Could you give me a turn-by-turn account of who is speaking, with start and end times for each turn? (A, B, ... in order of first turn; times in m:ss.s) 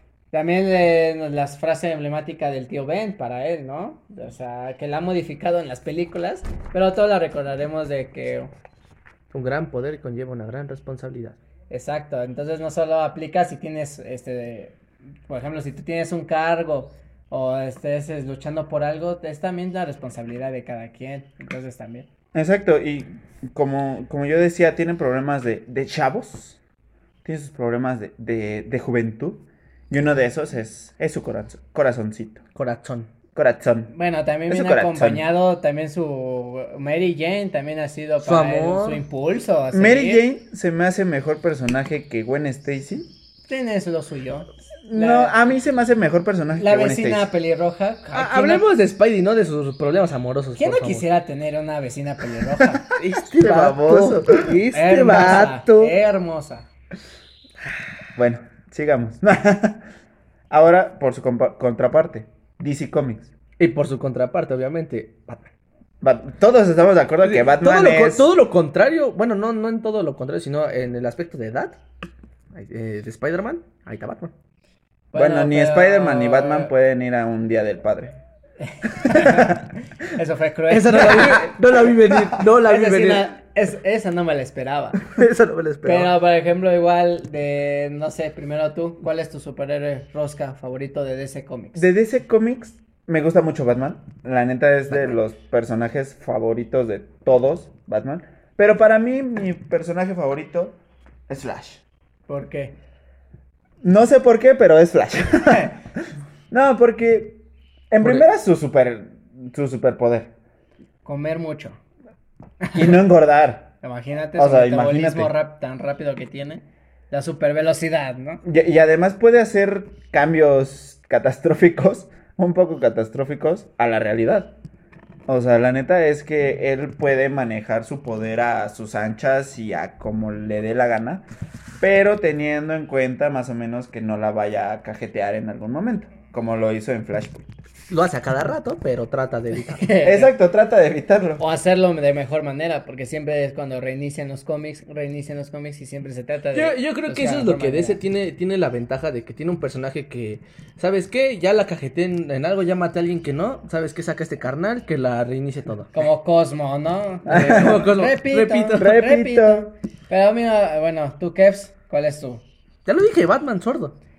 0:00.3-0:08.5 A
0:09.3-0:11.4 B
0:11.7-0:22.1 A
0:22.3-0:26.6 C
0:27.2-0:32.4 C
0:32.6-0:33.1 B
0:33.4-0:33.9 C
0:33.9-0:40.2 A
0:34.5-0:35.2 C
0:38.2-0:39.0 B
0:39.7-0:43.1 C
0:43.5-0:45.5 A
0:44.9-0:47.3 C
0:46.6-0:48.6 A
0:48.1-0:51.1 B
0:50.6-0:52.8 A
0:53.0-0:55.9 B
0:53.4-0:54.6 C
0:54.7-0:56.7 A
0:58.2-0:59.8 C
1:00.5-1:03.3 C
1:03.6-1:05.5 B
1:06.0-1:08.3 C
1:07.2-1:11.8 B
1:12.5-1:14.3 B
1:15.1-1:16.7 A
1:15.1-1:18.2 C
1:18.6-1:19.6 A
1:19.1-1:19.6 C
1:20.2-1:21.6 A
1:20.7-1:23.3 B
1:22.6-1:25.0 A
1:25.1-1:26.1 B
1:25.8-1:31.9 A
1:31.8-1:41.8 C
1:42.3-1:42.8 A
1:43.8-1:45.8 C
1:46.5-1:47.4 C
1:47.9-1:50.3 C
1:51.0-1:51.8 A
1:52.6-1:53.0 A
1:52.7-1:53.7 C
1:53.8-1:58.4 A
1:54.4-1:55.3 C
1:58.4-2:04.5 C
2:05.3-2:11.2 C
2:11.8-2:17.5 C
2:17.9-2:19.9 B
2:19.5-2:20.3 A
2:20.0-2:21.4 C
2:21.4-2:28.0 A
2:26.5-2:36.0 B
2:35.9-2:42.4 A
2:37.3-2:37.8 C
2:37.3-2:38.9 B
2:38.8-2:39.7 C
2:42.9-2:44.0 B